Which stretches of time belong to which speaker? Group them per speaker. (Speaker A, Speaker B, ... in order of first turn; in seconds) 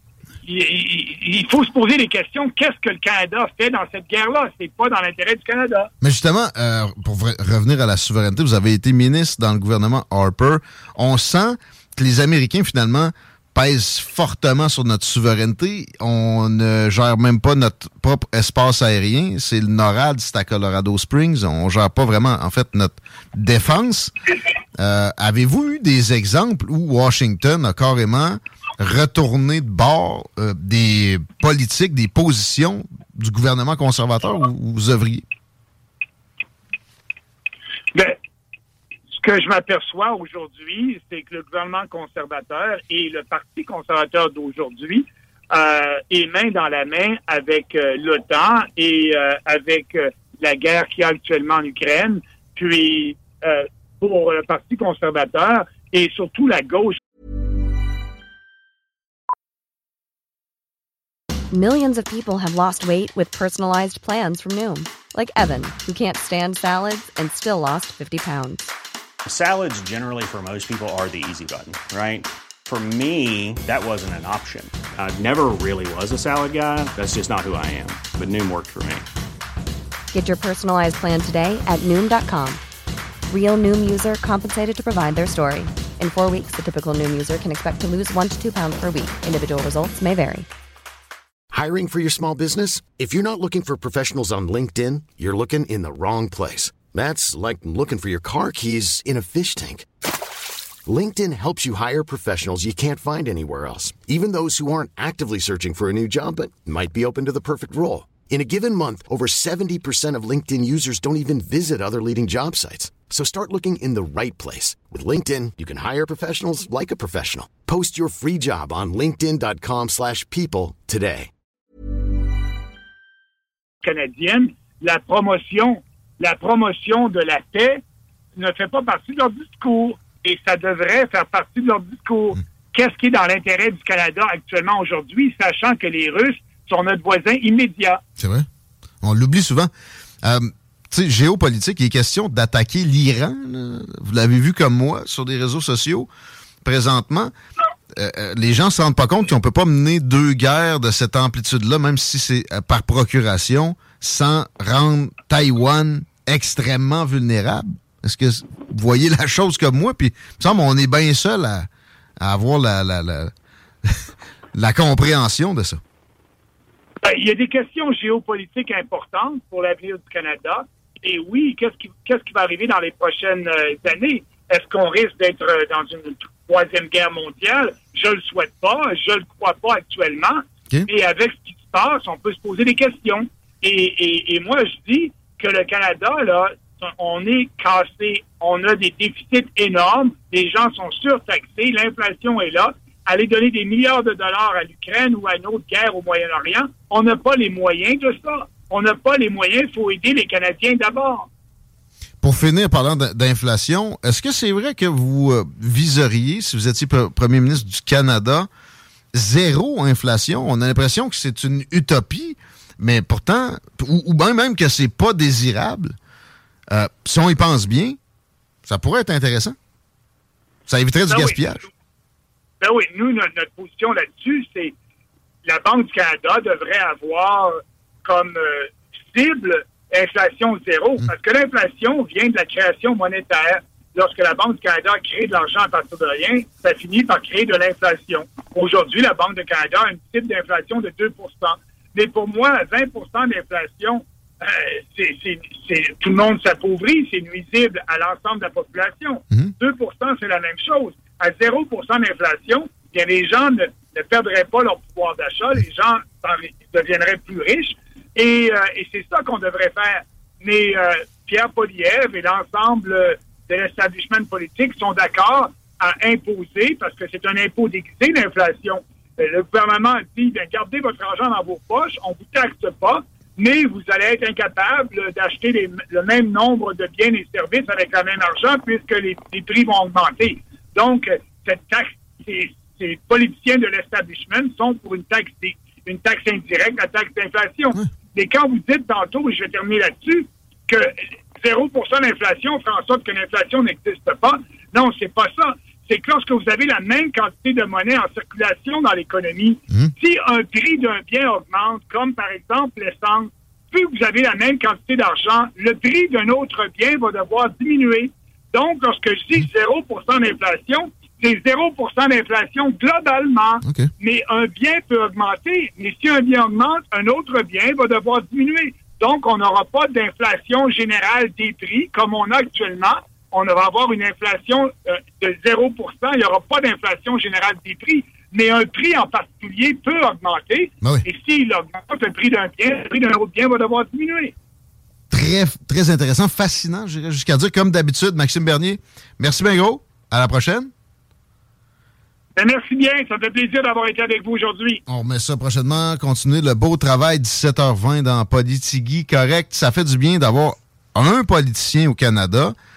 Speaker A: 0.4-5.9, 37.9-38.2, 39.1-57.0, 123.8-127.8, 128.4-138.0, 167.0-201.3, 221.1-221.4, 222.6-224.7, 225.4-334.3, 342.4-344.8
Speaker B: 6.0-24.1, 24.8-35.2, 138.2-138.5, 139.0-139.7, 140.2-146.1, 146.6-147.3, 147.9-161.7, 162.2-163.3, 163.8-165.8, 202.2-208.5, 209.1-216.0, 216.7-218.0, 218.6-219.6, 220.7-221.7, 313.6-313.9, 335.1-340.7, 344.9-352.6
Speaker C: 61.5-68.7, 80.1-82.6, 83.3-90.5
Speaker D: 69.2-79.0
Speaker E: 91.5-99.9, 100.9-121.3